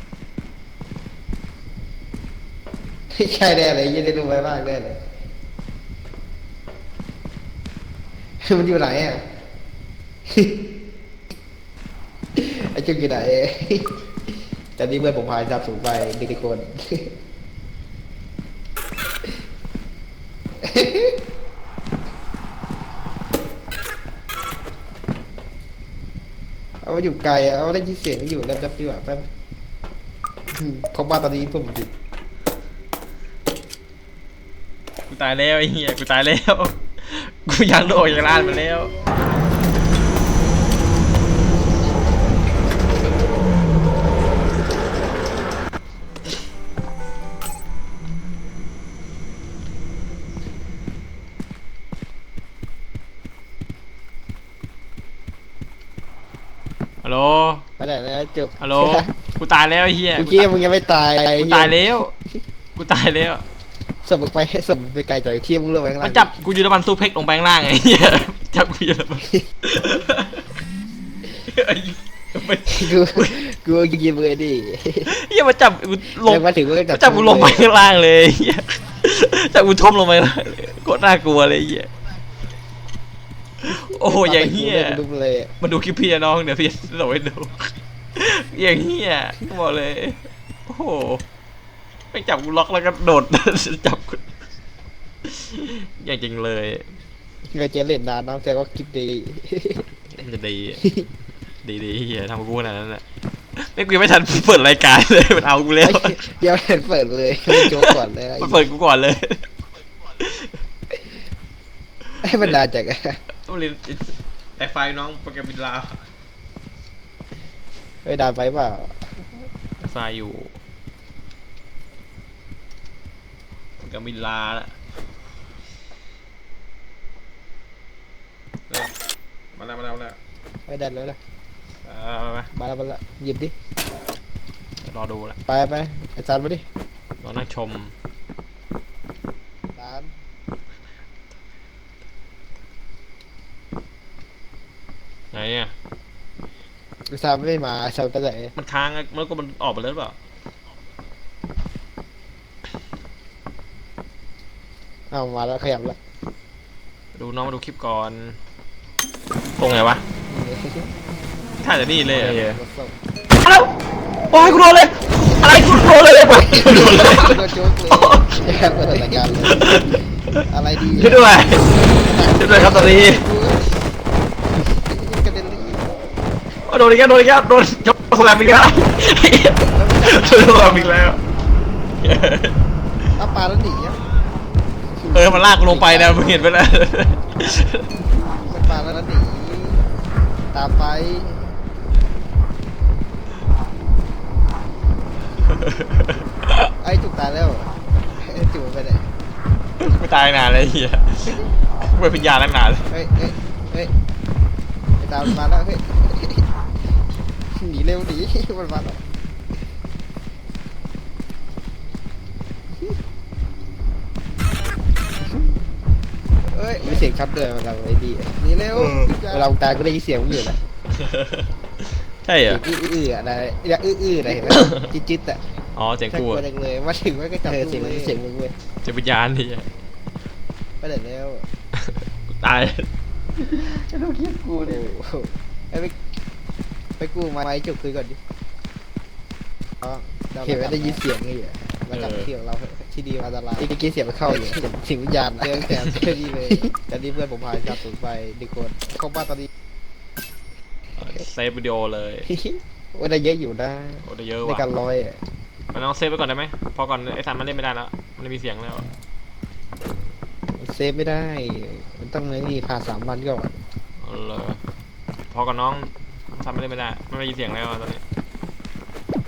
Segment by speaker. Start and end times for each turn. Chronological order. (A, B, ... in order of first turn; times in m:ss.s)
0:03.1-0:05.0 A
0:08.4-0:09.2 A
0:10.3-0:10.6 A
0:12.4-0:14.0 A
0:14.8-0:17.1 A
0:20.6-0:21.2 A
0:26.8-0:29.3 A
0:30.5-0:31.9 A
0:35.1-0:38.9 B
0:57.0-0:57.7 B
0:57.8-0:59.1 A
0:58.6-1:00.5 B
1:00.2-1:01.8 A
1:01.4-1:02.1 B
1:02.8-1:03.4 B
1:04.0-1:06.3 A
1:06.0-1:10.4 B
1:11.4-1:13.4 B
1:12.7-1:15.1 A
1:15.1-1:21.9 B
1:16.1-1:17.7 A
1:23.6-1:25.0 B
1:23.7-1:25.5 A
1:25.6-1:31.2 B
1:32.1-1:34.2 B
1:35.3-1:36.9 B
1:37.5-1:40.0 A
1:40.2-1:40.8 B
1:40.8-1:41.1 A
1:41.6-1:43.0 B
1:43.6-1:46.3 B
1:45.8-1:48.7 A
1:47.5-1:49.5 B
1:50.2-1:50.6 B
1:52.2-1:53.2 A
1:53.4-1:56.0 B
1:58.0-1:59.5 A
1:59.8-2:00.5 B
2:03.8-2:04.7 B
2:09.6-2:10.2 B
2:10.7-2:11.2 A
2:11.8-2:12.5 B
2:12.5-2:13.5 A
2:14.8-2:15.4 B
2:15.5-2:16.7 A
2:17.2-2:17.9 B
2:19.7-2:20.1 A
2:25.3-2:25.7 B
2:27.1-2:28.6 A
2:28.6-2:30.2 B
2:35.1-2:36.0 A
2:37.2-2:38.4 B
2:39.6-2:40.0 B
2:40.3-2:40.9 A
2:41.6-2:42.6 B
2:42.1-2:43.0 A
2:43.4-2:43.7 B
2:44.3-2:48.5 B
2:45.2-2:45.6 A
2:46.2-2:53.7 A
2:49.5-2:51.6 B
2:52.3-2:53.2 B
2:54.7-2:55.9 A
2:56.7-3:01.2 B
2:59.6-3:01.2 A
3:02.0-3:02.6 B
3:03.2-3:04.0 A
3:04.9-3:06.5 A
3:05.1-3:07.8 B
3:08.2-3:09.8 A
3:10.5-3:11.6 A
3:15.5-3:16.2 B
3:16.8-3:19.1 A
3:19.8-3:22.9 B
3:22.9-3:23.9 A
3:25.0-3:26.5 A
3:27.5-3:29.0 A
3:36.4-3:40.6 A
3:38.7-3:39.5 B
3:40.9-3:41.5 B
3:42.2-3:42.6 B
3:42.5-3:45.4 A
3:44.5-3:44.9 B
3:45.8-3:46.4 B
3:46.1-3:48.6 A
3:47.7-3:48.2 B
3:48.8-3:49.7 B
3:50.8-3:51.5 A
3:51.8-3:52.9 B
3:53.6-3:54.7 B
3:54.6-3:56.0 A
3:57.0-3:58.2 A
3:59.8-4:09.5 A
4:01.9-4:02.3 B
4:11.0-4:12.3 B
4:12.3-4:15.2 A
4:14.0-4:14.6 B
4:15.7-4:18.9 B
4:20.6-4:23.6 A
4:24.0-4:24.6 B
4:25.3-4:28.0 B